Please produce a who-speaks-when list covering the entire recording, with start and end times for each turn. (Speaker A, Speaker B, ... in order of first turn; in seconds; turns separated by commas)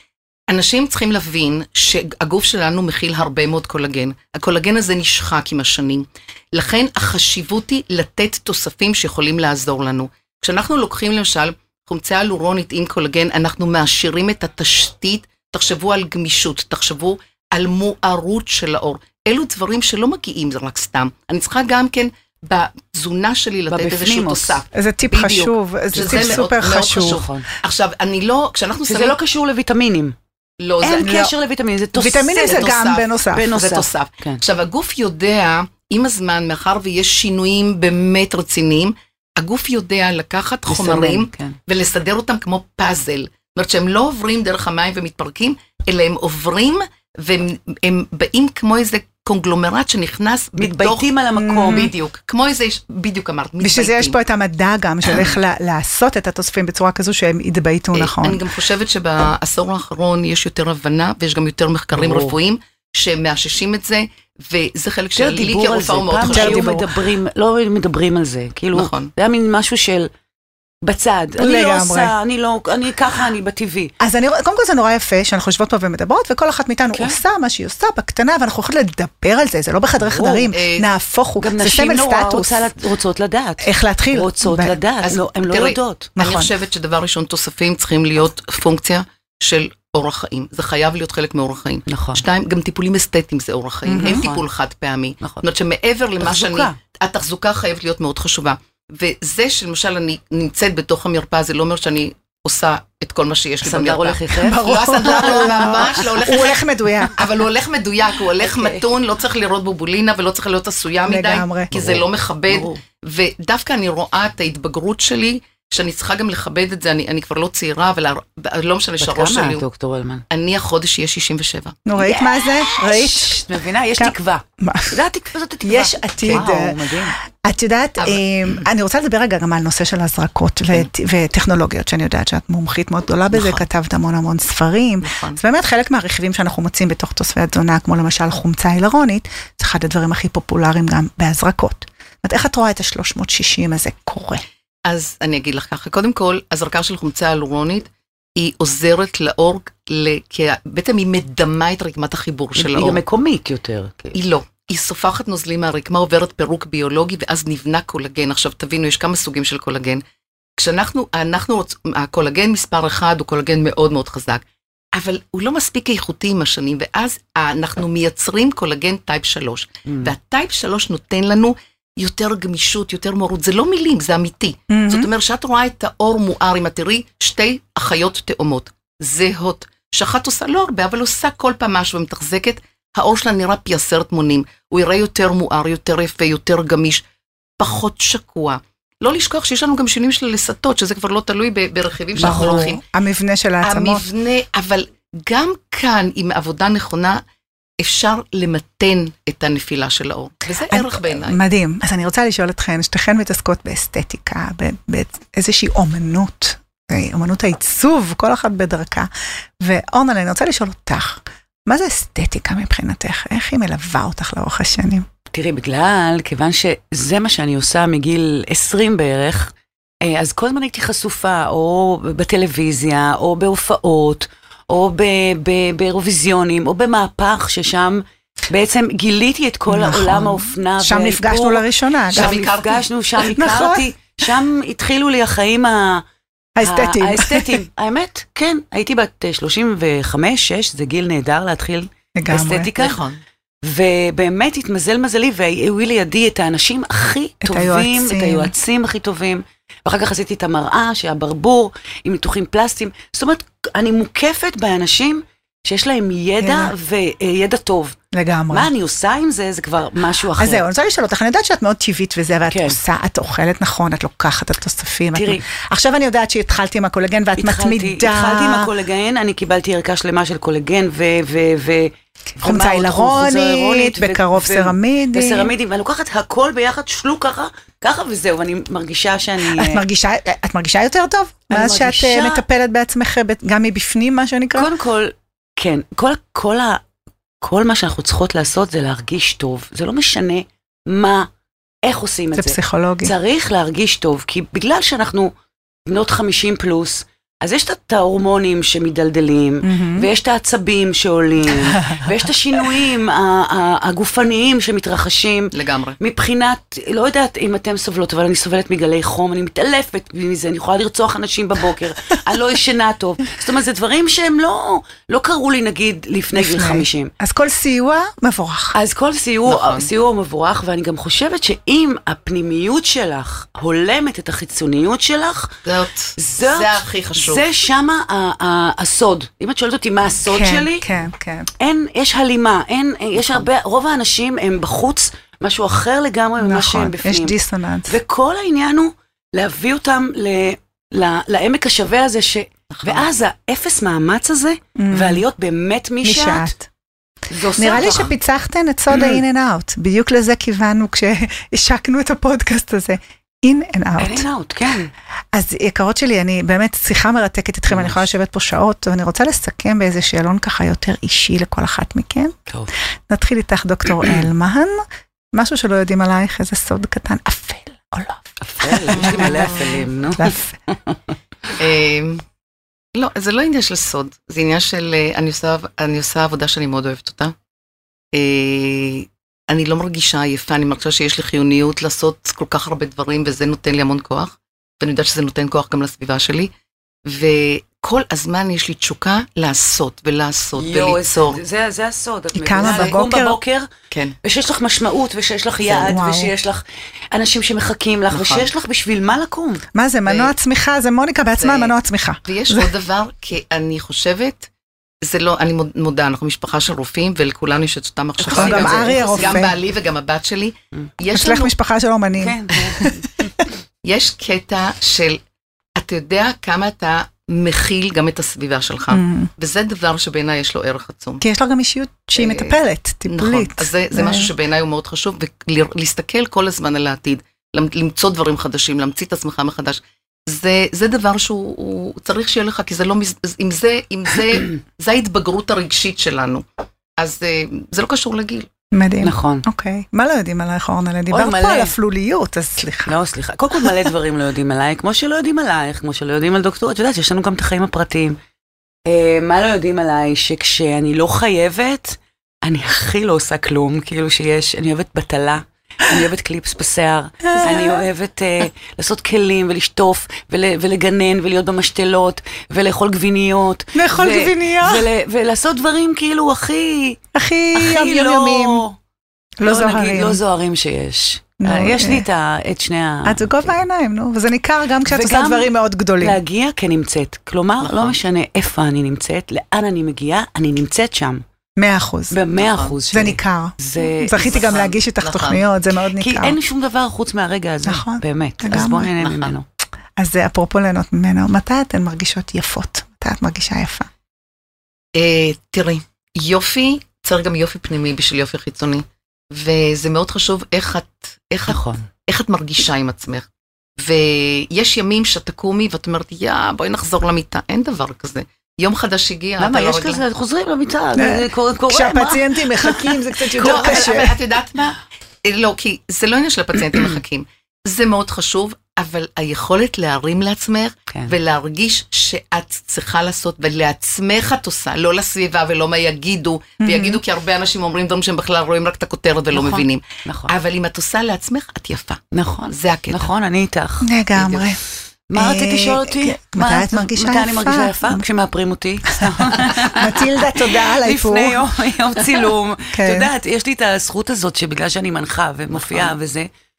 Speaker A: 0.5-29.1, Speaker B: 23.7-24.6, Speaker C: 24.7-27.2, Speaker B: 26.0-26.4, Speaker B: 27.0-27.4, Speaker B: 28.9-30.1, Speaker A: 30.6-31.1, Speaker B: 30.8-32.7, Speaker C: 31.0-31.3, Speaker C: 31.9-33.5, Speaker A: 32.4-51.0, Speaker B: 33.3-34.4, Speaker B: 40.7-41.6, Speaker B: 50.6-51.9, Speaker C: 51.4-51.9, Speaker A: 51.6-54.2, Speaker C: 53.6-58.4, Speaker A: 57.9-66.7, Speaker B: 61.9-62.3, Speaker B: 65.2-70.1, Speaker C: 66.2-66.9, Speaker A: 68.7-69.1, Speaker B: 70.8-73.9, Speaker C: 71.4-72.1, Speaker C: 74.0-82.6, Speaker B: 76.9-77.2, Speaker B: 80.0-80.5, Speaker A: 80.5-80.9, Speaker B: 81.4-86.1, Speaker C: 83.6-84.8, Speaker A: 85.0-119.6, Speaker C: 86.2-86.5, Speaker B: 91.9-92.2, Speaker C: 93.9-94.2, Speaker B: 94.0-94.4, Speaker B: 96.2-96.8, Speaker B: 103.6-105.8, Speaker C: 104.4-107.2, Speaker B: 108.4-108.8, Speaker C: 111.1-111.9, Speaker B: 112.5-112.8, Speaker B: 119.0-120.2, Speaker A: 120.3-121.8, Speaker C: 121.8-123.4, Speaker B: 122.0-127.2, Speaker C: 124.0-125.0, Speaker C: 125.6-126.8, Speaker C: 127.4-144.4, Speaker A: 128.0-128.7, Speaker A: 133.3-133.7, Speaker A: 135.0-135.4, Speaker A: 144.8-153.0, Speaker B: 152.6-154.2, Speaker A: 154.1-160.0, Speaker A: 160.6-164.4, Speaker A: 164.9-187.0, Speaker B: 169.8-170.1, Speaker C: 174.7-175.1, Speaker A: 187.6-192.8, Speaker C: 192.2-194.1, Speaker A: 193.6-197.2, Speaker A: 197.8-201.4, Speaker C: 200.7-209.1, Speaker C: 209.6-215.1, Speaker B: 215.3-236.0, Speaker C: 229.7-232.3, Speaker A: 232.1-232.8, Speaker C: 233.2-233.9, Speaker C: 236.6-237.6, Speaker B: 236.6-243.0, Speaker C: 242.2-242.7, Speaker A: 242.8-243.2, Speaker B: 243.6-258.0, Speaker C: 247.4-248.5, Speaker C: 256.4-256.7, Speaker C: 258.1-258.7, Speaker B: 258.5-260.6, Speaker C: 260.4-268.7, Speaker B: 262.5-262.8, Speaker B: 265.1-265.4, Speaker B: 267.4-279.8, Speaker C: 272.4-275.5, Speaker C: 279.4-284.7, Speaker B: 281.5-282.4, Speaker B: 284.5-286.8, Speaker B: 287.4-291.3, Speaker B: 291.8-295.3, Speaker C: 292.4-293.1, Speaker B: 295.9-317.1, Speaker C: 299.6-300.1, Speaker A: 305.5-306.0, Speaker C: 316.3-318.7, Speaker B: 318.7-325.6, Speaker A: 319.4-319.9, Speaker A: 325.6-327.4, Speaker B: 326.2-330.8, Speaker C: 330.3-331.5, Speaker B: 331.6-337.4, Speaker A: 333.2-333.4, Speaker C: 336.4-337.9, Speaker B: 337.9-346.5, Speaker A: 342.7-343.1, Speaker C: 344.8-345.2, Speaker C: 346.0-346.7, Speaker A: 347.3-348.1, Speaker C: 347.6-354.3, Speaker B: 354.0-354.9, Speaker C: 355.3-362.3, Speaker B: 357.7-358.1, Speaker C: 363.1-364.8, Speaker C: 365.3-369.6, Speaker B: 368.4-371.0, Speaker A: 368.9-369.6, Speaker C: 370.2-370.5, Speaker A: 371.6-372.2, Speaker A: 372.9-377.3, Speaker A: 378.1-386.5, Speaker A: 387.0-391.4, Speaker B: 390.6-393.7, Speaker C: 392.3-393.4, Speaker A: 393.9-394.1, Speaker B: 394.2-399.6, Speaker C: 395.7-396.3, Speaker A: 398.1-398.5, Speaker C: 399.7-402.7, Speaker A: 400.1-400.3, Speaker A: 401.4-401.7, Speaker A: 402.2-404.5, Speaker A: 405.0-411.5, Speaker C: 408.2-409.6, Speaker B: 408.3-409.3, Speaker C: 411.1-412.9, Speaker B: 412.2-413.3, Speaker A: 413.8-415.2, Speaker A: 415.8-421.2, Speaker C: 418.9-419.3, Speaker C: 421.2-424.3, Speaker A: 422.1-436.4, Speaker A: 437.0-438.5, Speaker C: 438.7-442.9, Speaker B: 439.0-439.4, Speaker B: 441.1-441.7, Speaker B: 442.9-448.2, Speaker B: 448.9-467.0, Speaker C: 457.3-457.8, Speaker C: 463.7-464.9, Speaker C: 467.1-468.6, Speaker B: 467.5-468.8, Speaker C: 469.4-470.2, Speaker B: 469.4-473.5, Speaker C: 471.4-472.1, Speaker C: 473.0-476.2, Speaker B: 474.9-481.2, Speaker A: 477.6-478.0, Speaker C: 481.6-482.1, Speaker B: 482.1-484.5, Speaker A: 482.4-482.8, Speaker C: 482.9-486.4, Speaker A: 484.2-485.4, Speaker B: 486.0-489.5, Speaker C: 487.6-488.9, Speaker A: 489.0-489.3, Speaker C: 490.0-493.9, Speaker A: 494.9-503.2, Speaker B: 501.5-501.9, Speaker A: 503.8-510.0, Speaker B: 509.4-512.8, Speaker C: 510.9-514.2, Speaker B: 513.3-514.0, Speaker A: 513.3-533.1, Speaker C: 526.6-527.0, Speaker B: 529.3-530.3, Speaker B: 532.1-533.9, Speaker C: 533.8-534.6, Speaker A: 534.1-534.4, Speaker B: 535.1-546.3, Speaker C: 535.1-538.0, Speaker C: 538.9-543.1, Speaker A: 545.5-545.9